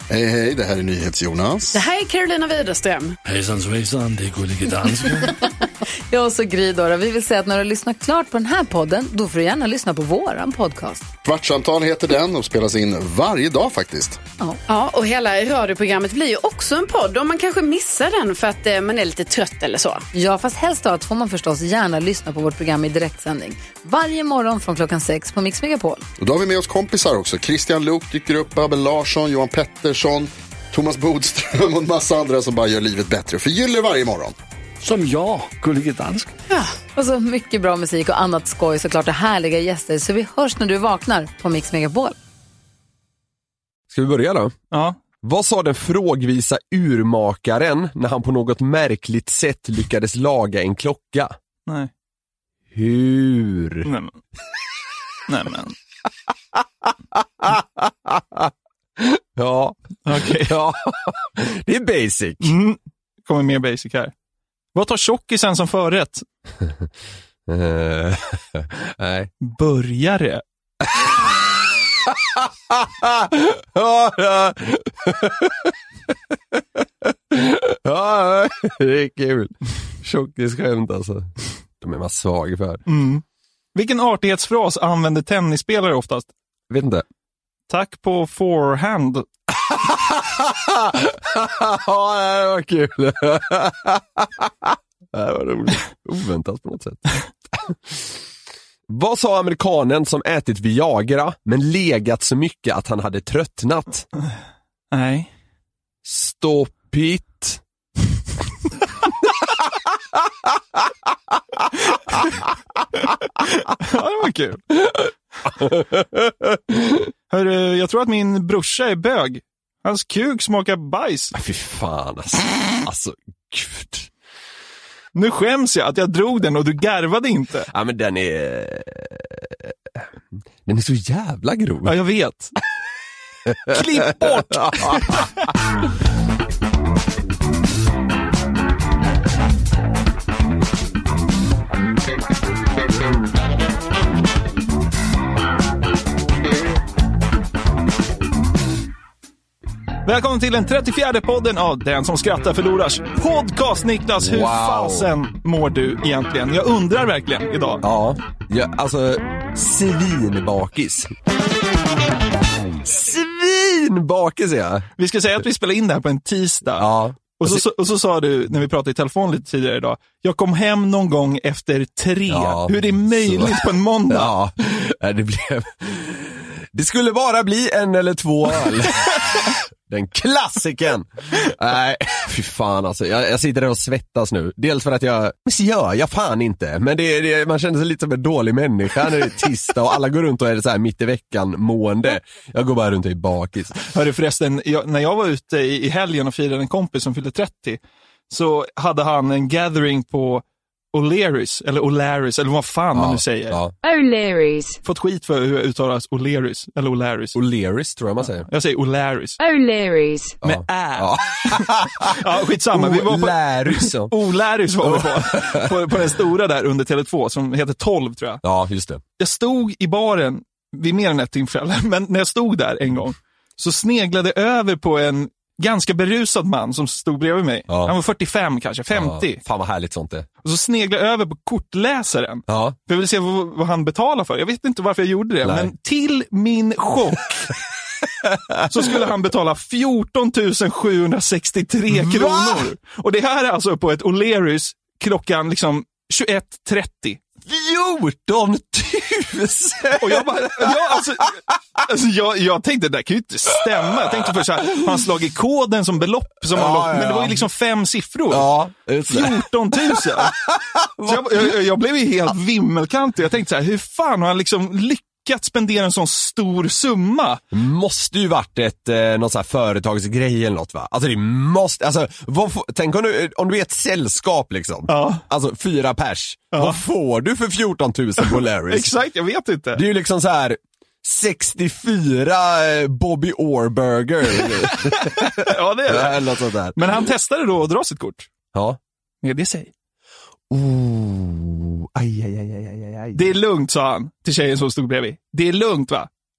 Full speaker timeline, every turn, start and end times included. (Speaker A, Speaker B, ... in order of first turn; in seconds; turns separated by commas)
Speaker A: 0.1-1.8, Speaker B: 1.7-3.2, Speaker C: 3.2-5.3, Speaker D: 6.1-11.1, Speaker A: 11.3-14.2, Speaker B: 14.7-20.1, Speaker D: 20.1-26.1, Speaker A: 26.2-34.4, Speaker C: 34.8-36.4, Speaker D: 37.0-42.2, Speaker E: 43.9-44.5, Speaker F: 44.7-45.0, Speaker E: 45.2-51.4, Speaker E: 52.7-53.9, Speaker F: 53.9-54.2, Speaker F: 55.3-55.8, Speaker E: 57.1-62.5, Speaker F: 60.1-60.5, Speaker F: 62.4-64.1, Speaker F: 64.8-66.2, Speaker E: 67.5-69.3, Speaker F: 69.4-70.4, Speaker E: 70.8-71.4, Speaker E: 72.1-75.7, Speaker E: 76.5-82.8, Speaker F: 82.9-83.2, Speaker F: 83.8-86.3, Speaker E: 86.7-87.0, Speaker F: 87.7-89.3, Speaker E: 89.6-97.0, Speaker E: 97.5-98.0, Speaker E: 98.9-104.1, Speaker F: 104.9-105.3, Speaker E: 106.0-107.6, Speaker F: 113.4-114.6, Speaker E: 115.5-117.1, Speaker F: 117.3-121.3, Speaker E: 121.3-124.1, Speaker F: 125.2-127.7, Speaker E: 127.7-130.0, Speaker E: 130.7-131.9, Speaker F: 131.8-132.5, Speaker E: 133.5-135.2, Speaker F: 133.7-135.3, Speaker F: 150.1-157.8, Speaker E: 154.2-155.1, Speaker E: 157.8-161.1, Speaker E: 162.8-164.9, Speaker F: 165.0-174.3, Speaker E: 166.8-167.6, Speaker E: 172.3-193.8, Speaker F: 193.8-197.8, Speaker F: 198.3-203.6, Speaker E: 202.9-203.7, Speaker G: 203.8-204.8, Speaker F: 204.8-207.3, Speaker E: 207.3-208.5, Speaker F: 208.5-209.4, Speaker G: 209.4-210.4, Speaker E: 210.4-214.1, Speaker F: 210.4-218.4, Speaker E: 214.8-215.8, Speaker E: 218.4-219.0, Speaker F: 219.2-229.4, Speaker E: 227.7-227.9, Speaker E: 228.9-230.3, Speaker F: 230.4-237.5, Speaker E: 232.5-232.8, Speaker E: 235.4-235.7, Speaker E: 238.2-238.9, Speaker F: 238.7-247.2, Speaker E: 241.9-242.7, Speaker E: 247.5-251.0, Speaker F: 250.0-258.5, Speaker E: 254.0-254.9, Speaker E: 256.5-257.4, Speaker E: 258.3-261.5, Speaker F: 259.1-260.3, Speaker F: 261.0-267.4, Speaker E: 267.5-278.9, Speaker F: 274.9-275.2, Speaker F: 276.5-276.8, Speaker F: 278.2-279.9, Speaker E: 279.7-286.9, Speaker F: 284.6-288.3, Speaker E: 288.5-288.8, Speaker F: 289.2-289.7, Speaker E: 290.5-293.3, Speaker F: 293.1-296.1